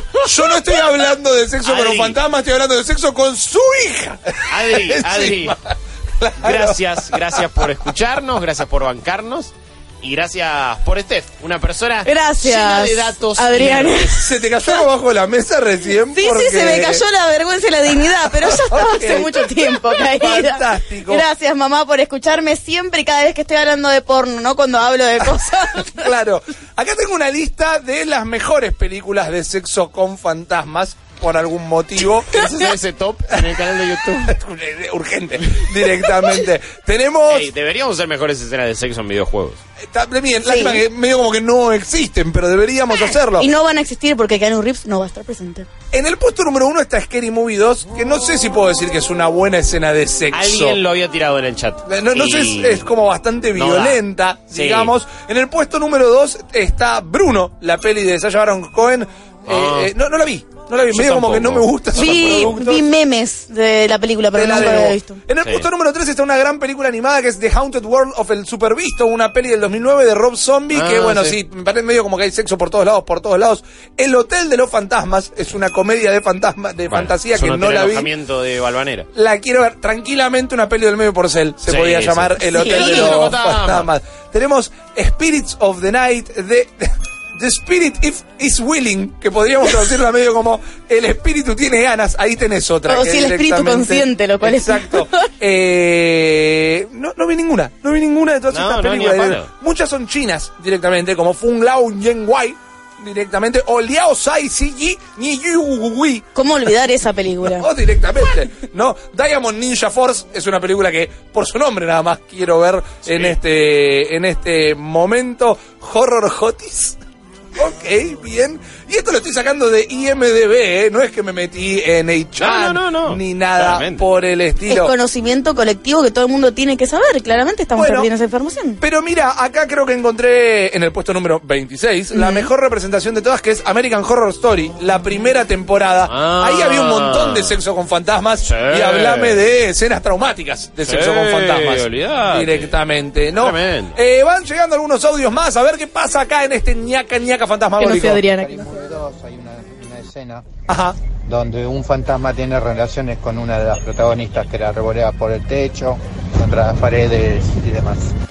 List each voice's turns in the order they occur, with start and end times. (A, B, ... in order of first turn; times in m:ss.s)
0:00.2-0:07.6 A
0:01.6-0:02.2 B
0:04.5-0:05.6 B
0:06.4-0:14.2 B
0:12.0-0:14.2 C
0:14.1-0:17.0 A
0:16.2-0:26.1 C
0:18.4-0:21.2 A
0:25.9-0:32.5 A
0:32.3-0:34.4 B
0:34.3-0:37.5 A
0:37.3-0:39.6 B
0:39.8-0:43.5 A
0:40.4-0:40.8 C
0:43.4-0:45.7 C
0:45.9-0:50.8 A
0:50.3-0:52.9 B
0:51.9-1:02.8 A
0:53.6-0:54.9 B
0:59.5-0:59.9 B
1:00.9-1:02.5 B
1:02.0-1:05.2 C
1:04.3-1:18.1 A
1:04.6-1:04.8 B
1:10.7-1:11.4 B
1:16.9-1:19.1 B
1:19.1-1:46.3 A
1:21.7-1:23.9 B
1:22.6-1:23.2 C
1:32.9-1:35.2 C
1:38.5-1:39.5 B
1:46.4-1:47.7 C
1:47.5-1:57.0 A
1:53.1-1:53.4 B
1:57.6-2:04.9 A
2:02.4-2:04.0 B
2:04.7-2:08.8 C
2:07.8-2:08.1 A
2:08.8-2:28.2 A
2:12.1-2:12.5 C
2:16.1-2:17.6 B
2:18.4-2:19.4 B
2:20.8-2:22.8 B
2:23.3-2:24.0 B
2:27.8-2:28.7 C
2:28.3-2:30.5 D
2:30.7-2:31.0 A
2:31.2-2:38.1 D